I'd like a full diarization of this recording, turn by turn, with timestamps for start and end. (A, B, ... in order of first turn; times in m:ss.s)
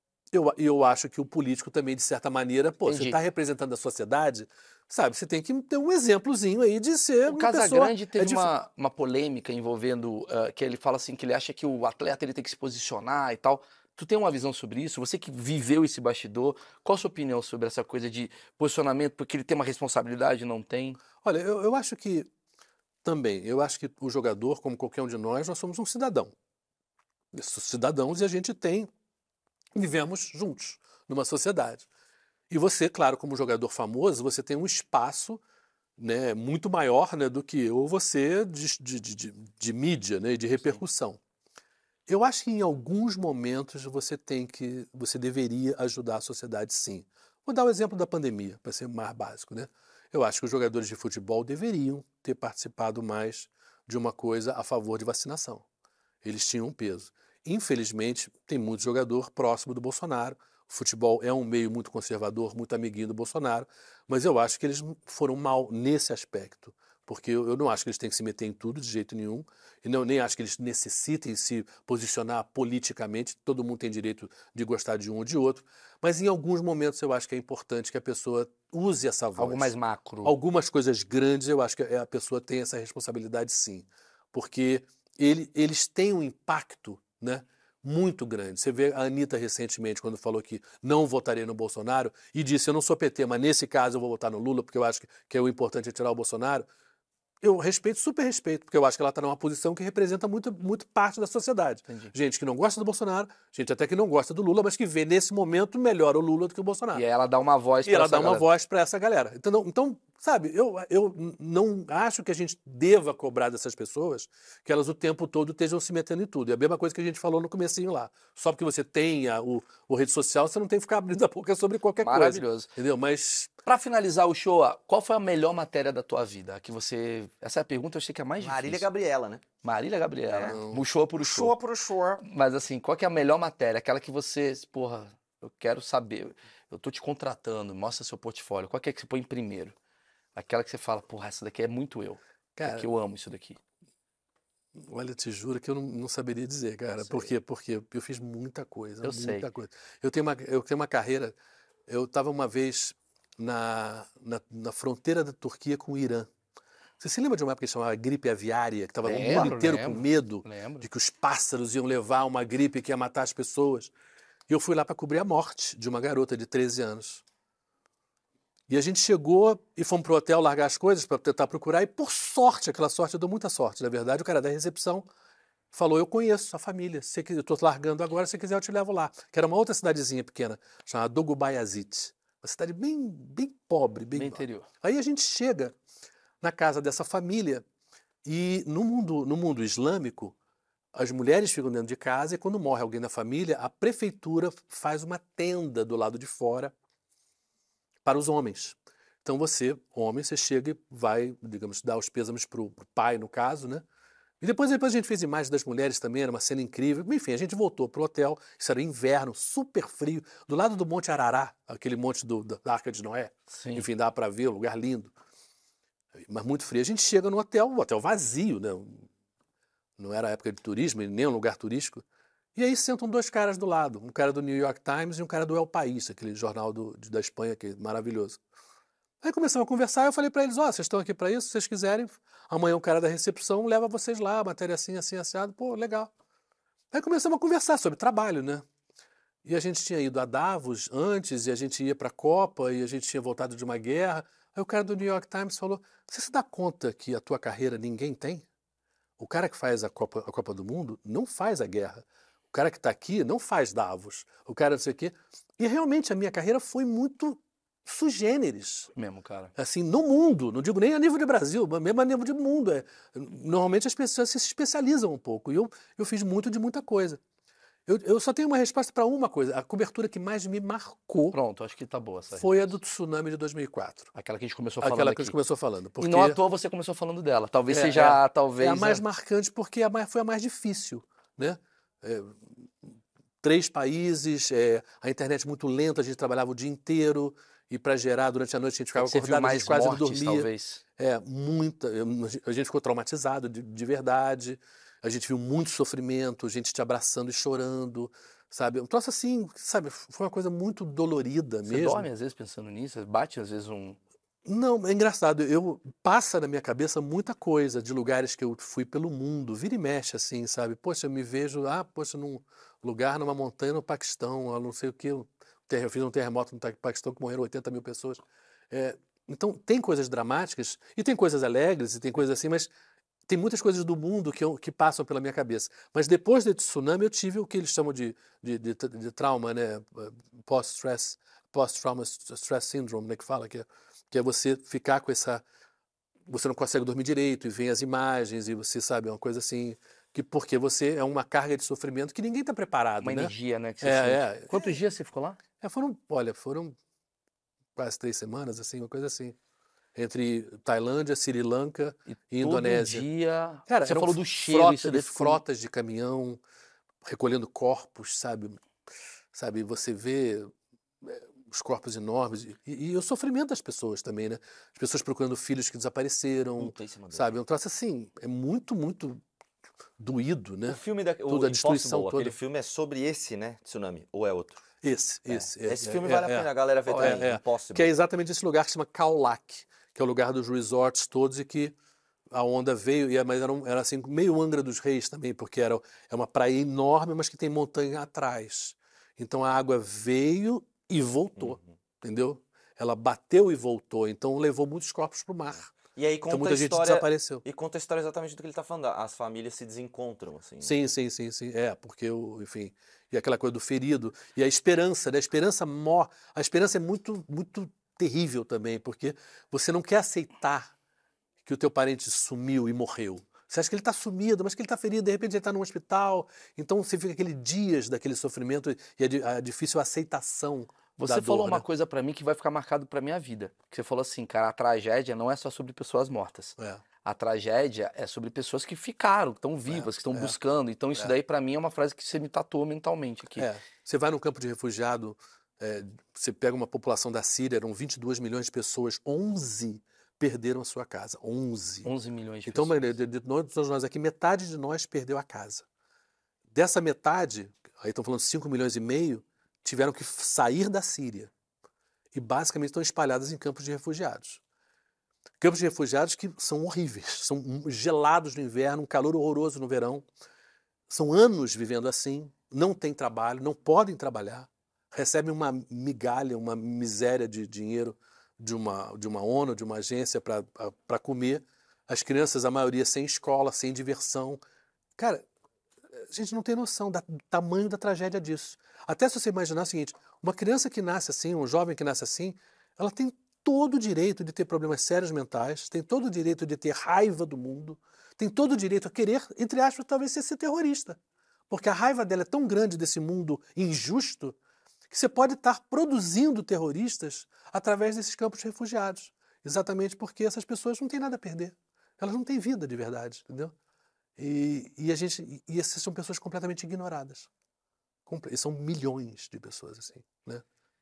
0:00.3-0:08.5 A
0:02.8-0:03.2 B
0:07.3-0:21.0 B
0:21.2-0:22.3 A
0:23.0-0:26.3 A
0:27.3-0:28.9 A
0:29.7-0:31.8 A
0:32.5-0:35.4 A
0:36.0-0:41.2 A
0:42.1-0:55.6 A
0:56.2-1:36.7 A
1:19.4-1:20.4 B
1:37.4-1:47.0 A
1:41.9-1:42.1 B
1:46.9-1:48.5 B
1:47.8-2:03.5 A
2:02.0-2:02.7 B
2:03.6-2:08.8 B
2:08.4-2:09.4 C
2:09.6-2:11.6 B
2:10.3-2:10.6 C
2:10.5-2:10.8 A
2:11.2-2:12.2 C
2:12.2-2:19.7 B
2:20.4-2:23.6 B
2:22.6-2:22.9 A
2:24.8-2:31.4 A
2:27.0-2:27.3 B
2:29.0-2:29.5 B
2:31.9-2:36.3 A
2:37.0-2:43.9 A
2:39.0-2:40.9 B
2:44.5-2:47.2 A
2:48.7-2:55.1 A
2:55.7-3:05.8 A
3:04.1-3:04.7 B
3:06.4-3:07.6 A
3:08.2-3:10.4 A
3:10.9-3:16.7 A
3:18.0-3:23.8 A
3:24.4-3:35.1 A
3:33.5-3:33.9 B
3:36.3-3:39.1 A
3:40.0-3:42.0 A
3:42.6-3:48.4 A
3:49.2-3:56.1 A
3:56.9-3:58.6 A
3:59.4-4:08.4 A
4:09.2-4:18.9 A
4:19.0-4:19.5 B
4:19.6-4:27.2 A
4:27.9-4:31.4 A
4:31.3-4:32.7 B
4:32.4-4:34.1 A
4:34.1-4:35.4 B
4:34.8-4:36.4 A
4:36.0-4:39.0 B
4:37.7-4:42.9 A
4:43.4-5:02.1 A
4:48.9-4:50.8 B
5:01.6-5:04.0 B
5:04.4-5:22.7 A
5:23.3-5:35.4 A
5:36.3-5:44.8 A
5:43.0-5:45.4 B
5:45.6-5:46.8 A
5:47.8-5:49.4 A
5:49.9-5:53.1 A
5:52.1-5:55.4 B
5:53.7-5:56.4 A
5:57.0-5:58.6 A
5:59.3-6:00.5 A
6:01.0-6:09.2 A
6:06.6-6:07.4 C
6:10.0-6:12.4 A
6:10.7-6:14.6 C
6:14.8-6:21.7 A
6:15.3-6:17.9 C
6:16.9-6:17.3 B
6:22.3-6:35.8 A
6:31.4-6:31.7 C
6:35.9-6:40.7 C
6:36.3-6:37.4 A
6:40.6-6:50.7 A
6:51.4-7:01.6 A
7:01.0-7:13.5 B
7:06.6-7:06.8 A
7:09.6-7:10.4 A
7:13.4-7:21.9 A
7:21.8-7:22.9 B
7:22.4-7:25.6 A
7:26.5-7:31.3 A
7:32.1-7:34.4 A
7:35.4-7:40.1 A
7:40.9-7:54.4 A
7:55.0-7:55.3 A
7:56.0-8:11.0 A
8:11.5-8:14.4 A
8:14.9-8:23.5 A
8:24.2-8:27.3 A
8:28.1-8:30.4 A